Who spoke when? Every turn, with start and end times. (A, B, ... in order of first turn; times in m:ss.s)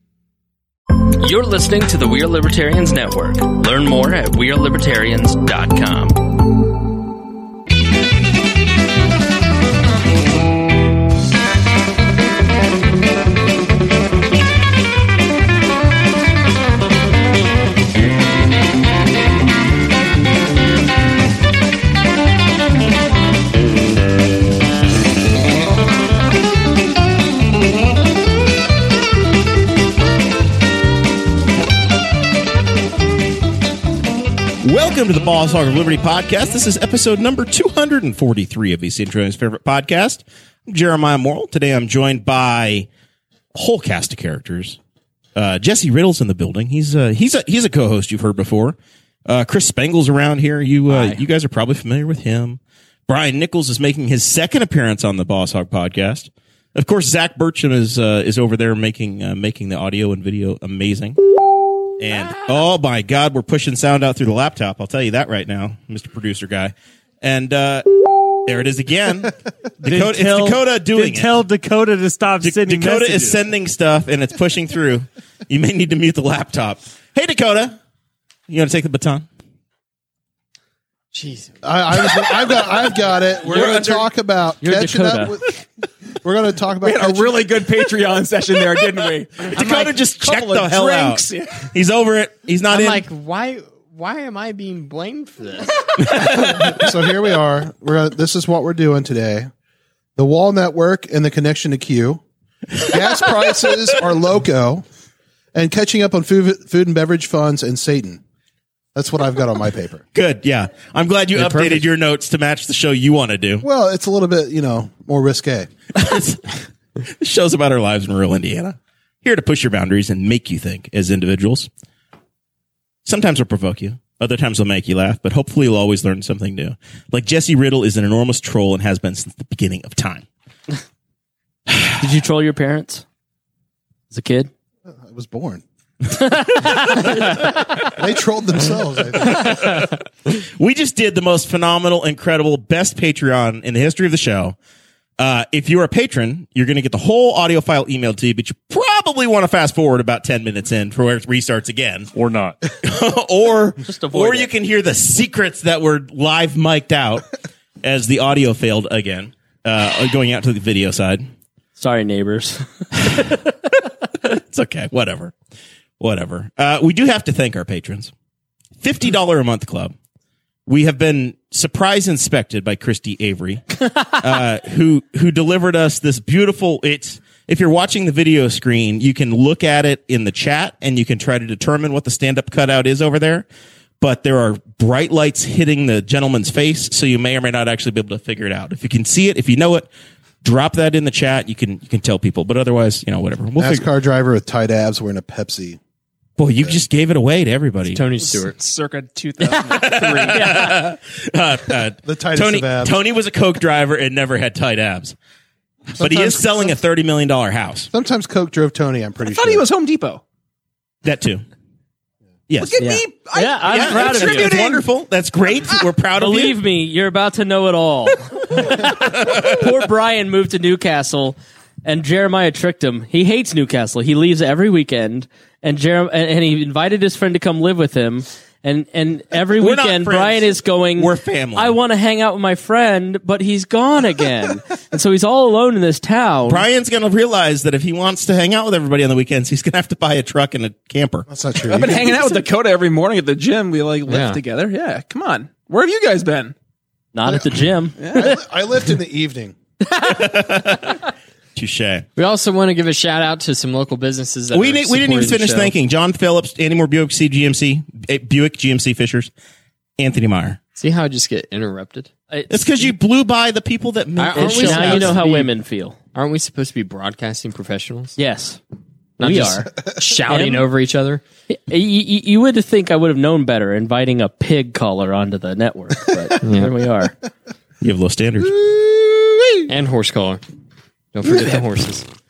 0:01.0-0:06.3 A
0:34.6-0:42.9 B
0:43.5-0:44.8 B
0:45.4-1:01.2 B
0:50.9-0:51.2 A
1:02.0-1:07.8 B
1:08.5-1:11.4 B
1:09.8-1:13.2 C
1:10.0-1:11.4 D
1:12.2-1:13.3 D
1:12.4-1:17.8 B
1:18.5-1:19.3 B
1:21.1-1:21.6 E
1:21.6-1:25.6 F
1:23.4-1:24.1 B
1:24.6-1:25.3 A
1:26.2-1:27.5 F
1:26.8-1:31.7 G
1:29.4-1:33.0 B
1:32.7-1:35.8 E
1:36.0-1:36.7 B
1:36.3-1:39.5 F
1:36.4-1:36.8 E
1:40.2-1:42.2 F
1:42.8-1:44.8 F
1:45.5-1:48.2 F
1:49.0-1:50.0 F
1:50.1-1:53.7 B
1:51.4-1:51.8 E
1:53.6-1:55.7 F
1:56.0-1:56.4 B
1:57.0-2:01.7 B
2:03.0-2:10.3 B
2:12.0-2:13.0 A
2:14.1-2:14.5 A
2:14.9-2:15.6 F
2:16.1-2:17.6 A
2:17.9-2:19.8 F
2:19.2-2:24.6 B
2:25.2-2:32.1 B
2:32.1-2:32.6 D
2:32.8-2:37.3 B
2:33.8-2:34.5 A
2:37.8-2:41.3 B
2:41.8-2:43.4 A
2:44.3-2:45.4 B
2:46.0-2:48.1 B
2:48.8-2:49.9 B
2:50.7-3:03.4 B
3:04.0-3:09.9 B
3:10.4-3:13.9 B
3:13.6-3:15.8 F
3:16.4-3:18.0 B
3:17.8-3:18.6 E
3:18.2-3:20.7 G
3:19.4-3:20.8 A
3:19.7-3:25.2 B
3:22.0-3:23.0 F
3:26.0-3:27.9 B
3:26.0-3:26.7 F
3:27.9-3:29.6 F
3:29.2-3:30.2 G
3:31.0-3:31.4 B
3:32.5-3:32.8 B
3:32.6-3:34.8 G
3:32.8-3:34.6 A
3:33.7-3:36.6 B
3:36.2-3:56.7 A
3:49.6-3:51.8 B
3:56.5-4:01.3 B
4:01.3-4:02.3 F
4:01.7-4:06.6 G
4:04.1-4:04.4 E
4:07.1-4:08.4 A
4:08.0-4:08.3 G
4:08.0-4:09.6 F
4:09.8-4:10.2 A
4:10.0-4:11.0 B
4:11.6-4:12.1 B
4:12.2-4:15.8 E
4:14.5-4:19.3 B
4:20.0-4:20.6 B
4:20.8-4:22.1 E
4:22.3-4:22.9 A
4:22.5-4:25.2 B
4:24.2-4:25.5 E
4:24.4-4:26.0 A
4:26.2-4:28.2 E
4:28.2-4:28.6 A
4:29.2-4:31.2 E
4:29.2-4:29.7 A
4:30.3-4:30.6 A
4:31.5-4:37.2 A
4:36.4-4:36.7 E
4:37.8-4:39.0 B
4:39.7-4:40.4 E
4:41.1-4:42.1 E